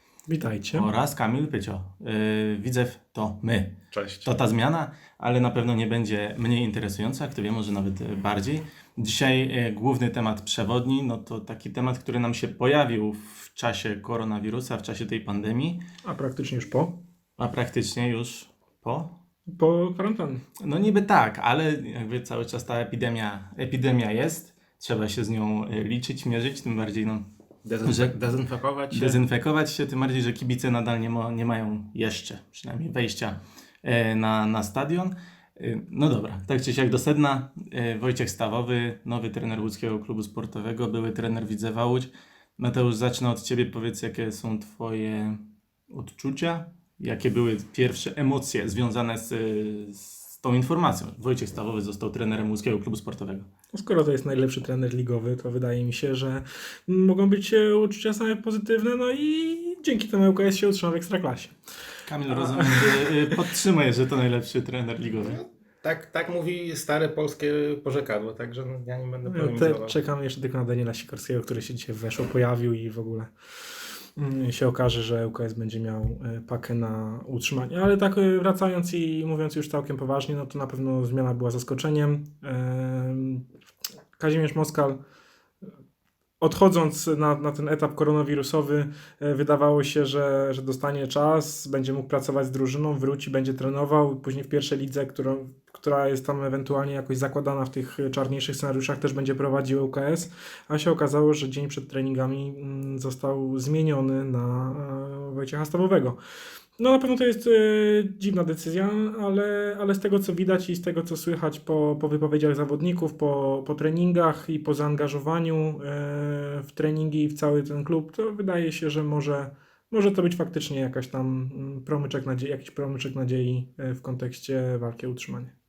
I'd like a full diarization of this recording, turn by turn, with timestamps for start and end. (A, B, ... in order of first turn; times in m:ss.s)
0:00.3-0:00.9 A
0:00.7-0:15.8 B
0:03.9-0:04.3 C
0:16.0-0:17.0 A
0:17.4-0:19.1 B
0:19.5-0:20.4 A
0:20.6-0:27.3 B
0:27.6-0:29.2 C
0:27.8-0:28.2 B
0:28.9-0:53.5 B
0:53.7-1:01.6 A
1:02.0-1:05.4 B
1:02.3-1:03.4 A
1:05.2-1:10.0 C
1:09.2-1:13.3 A
1:14.2-1:23.4 A
1:24.2-1:25.0 A
1:26.4-1:46.2 A
1:46.8-2:05.5 A